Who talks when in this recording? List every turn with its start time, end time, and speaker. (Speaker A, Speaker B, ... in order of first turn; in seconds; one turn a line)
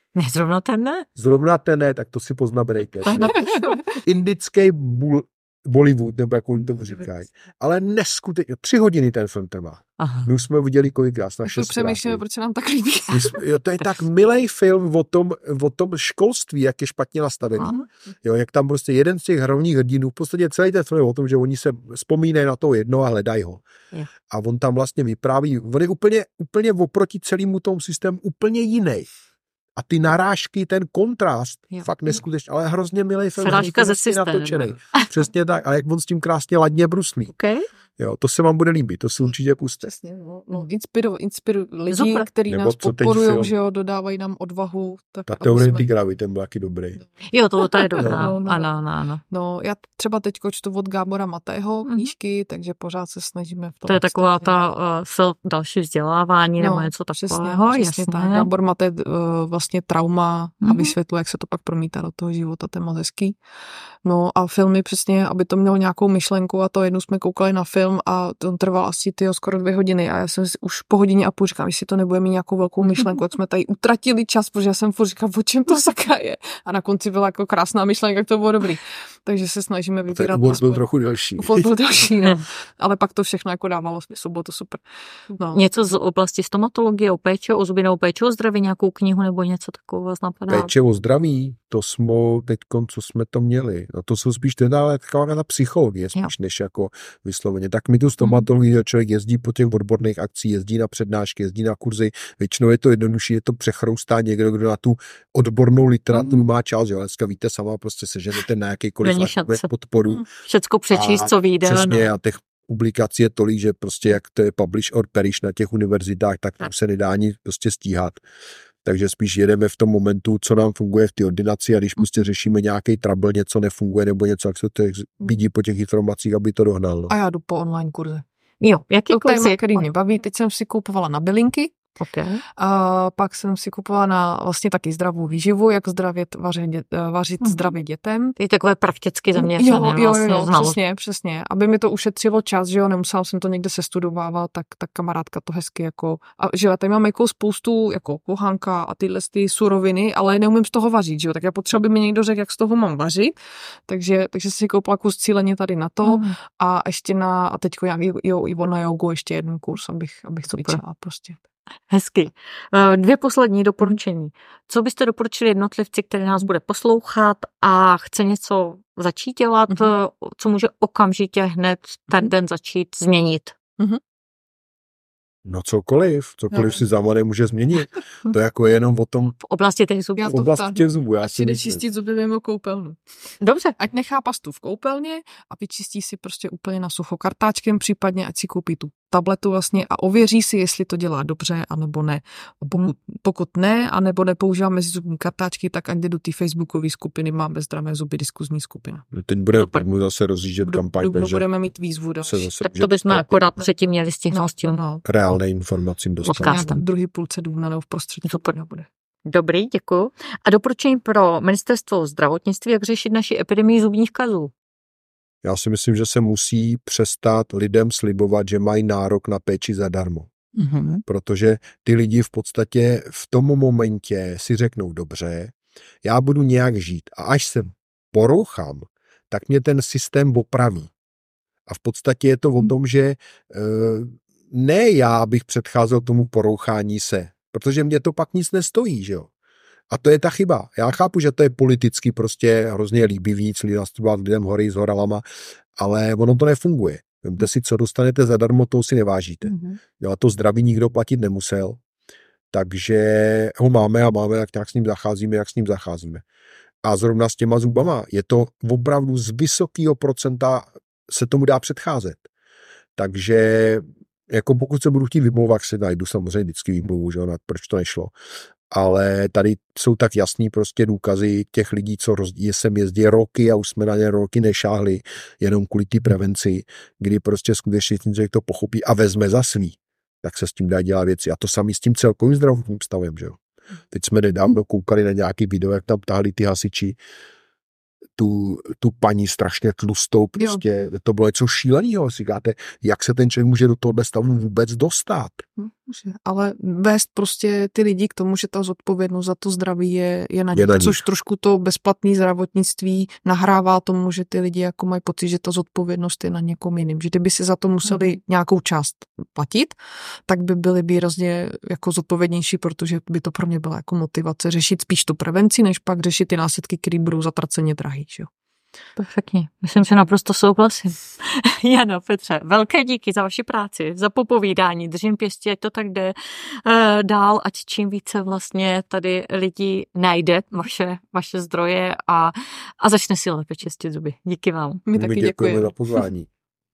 Speaker A: 0.1-1.1
Speaker B: 1.2-3.4
Speaker A: 3.0-3.8
Speaker C: 3.2-3.8
Speaker B: 4.0-12.2
Speaker A: 10.0-10.3
Speaker C: 11.4-13.4
Speaker B: 13.1-23.6
Speaker B: 24.3-29.1
Speaker B: 29.8-37.3
Speaker A: 33.4-35.1
Speaker A: 37.3-37.7
Speaker B: 38.0-39.9
Speaker C: 39.8-45.9
Speaker A: 41.9-42.3
Speaker B: 42.5-43.5
Speaker B: 45.3-47.0
Speaker A: 47.3-49.2
Speaker C: 47.6-48.7
Speaker C: 49.3-54.7
Speaker A: 51.9-52.1
Speaker A: 53.9-58.5
Speaker C: 56.6-63.4
Speaker A: 60.6-60.9
Speaker C: 64.0-80.8
Speaker B: 80.1-81.7
Speaker C: 81.4-85.6
Speaker A: 85.5-90.7
Speaker B: 90.5-110.2
Speaker A: 109.0-109.7
Speaker A: 110.3-112.1
Speaker B: 110.9-118.2
Speaker B: 118.8-127.2
Speaker C: 127.1-128.2
Speaker A: 128.6-129.8
Speaker C: 129.1-131.8
Speaker A: 132.0-132.4
Speaker C: 132.6-138.4
Speaker A: 138.4-140.8
Speaker C: 139.4-153.3
Speaker C: 153.9-161.4
Speaker A: 156.1-156.3
Speaker A: 160.5-160.8
Speaker A: 161.9-173.6
Speaker B: 175.4-179.4
Speaker C: 176.5-176.8
Speaker A: 179.4-180.4
Speaker C: 180.2-183.0
Speaker B: 180.3-181.8
Speaker A: 183.4-183.8
Speaker C: 183.8-199.1
Speaker B: 199.1-201.4
Speaker C: 200.6-202.5
Speaker B: 202.2-203.5
Speaker A: 202.6-204.8
Speaker C: 204.3-205.0
Speaker B: 205.0-206.6
Speaker A: 206.2-206.8
Speaker C: 206.4-208.6
Speaker A: 208.3-214.5
Speaker B: 215.4-220.3
Speaker C: 220.6-221.0
Speaker B: 221.1-230.9
Speaker B: 231.7-239.3
Speaker B: 239.9-245.2
Speaker B: 245.8-251.8
Speaker B: 252.5-256.2
Speaker B: 256.8-262.2
Speaker B: 263.0-268.1
Speaker B: 268.7-283.4
Speaker B: 283.9-287.0
Speaker B: 288.2-295.4
Speaker C: 295.6-318.3
Speaker B: 300.5-301.0
Speaker A: 319.0-334.8
Speaker C: 334.9-335.7
Speaker B: 334.9-336.3